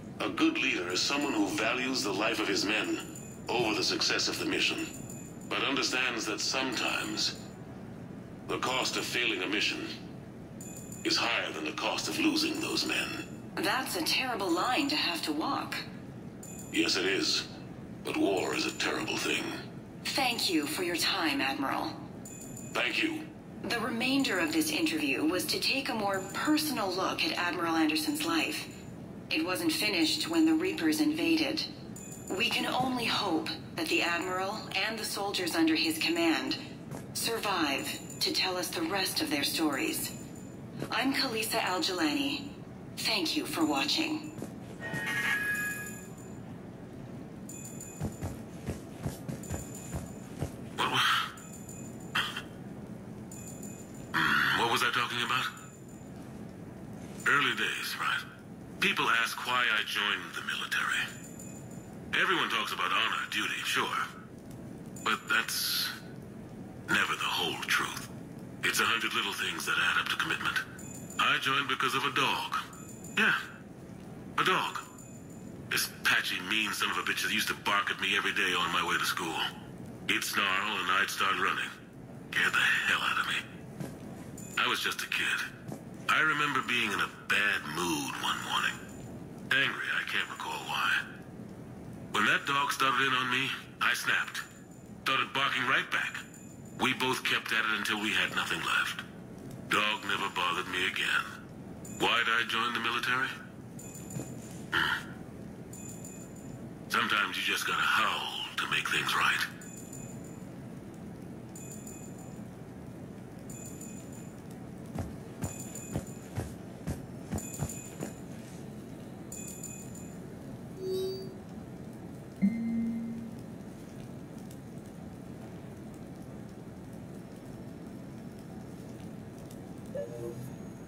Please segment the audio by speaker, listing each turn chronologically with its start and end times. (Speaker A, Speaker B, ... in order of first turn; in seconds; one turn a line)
Speaker A: 0.2-4.9
Speaker A: 5.5-7.3
Speaker A: 8.5-9.9
Speaker A: 11.0-13.2
Speaker B: 13.6-15.8
Speaker A: 16.7-17.4
Speaker A: 18.0-19.6
Speaker B: 20.0-22.0
Speaker A: 22.7-23.2
Speaker B: 23.6-28.7
Speaker B: 29.3-31.7
Speaker B: 32.3-36.6
Speaker B: 37.1-40.1
Speaker B: 40.9-44.3
Speaker A: 50.8-51.2
Speaker A: 54.1-55.5
Speaker A: 57.2-58.2
Speaker A: 58.8-61.0
Speaker A: 62.1-64.0
Speaker A: 65.0-65.9
Speaker A: 66.9-68.1
Speaker A: 68.6-70.6
Speaker A: 71.2-72.6
Speaker A: 74.4-74.8
Speaker A: 75.7-79.5
Speaker A: 80.1-81.7
Speaker A: 82.3-83.4
Speaker A: 84.6-85.5
Speaker A: 86.1-88.8
Speaker A: 89.5-91.0
Speaker A: 92.1-94.4
Speaker A: 95.0-96.2
Speaker A: 96.8-99.0
Speaker A: 99.7-101.2
Speaker A: 102.0-103.3
Speaker A: 104.7-105.0
Speaker A: 106.9-109.5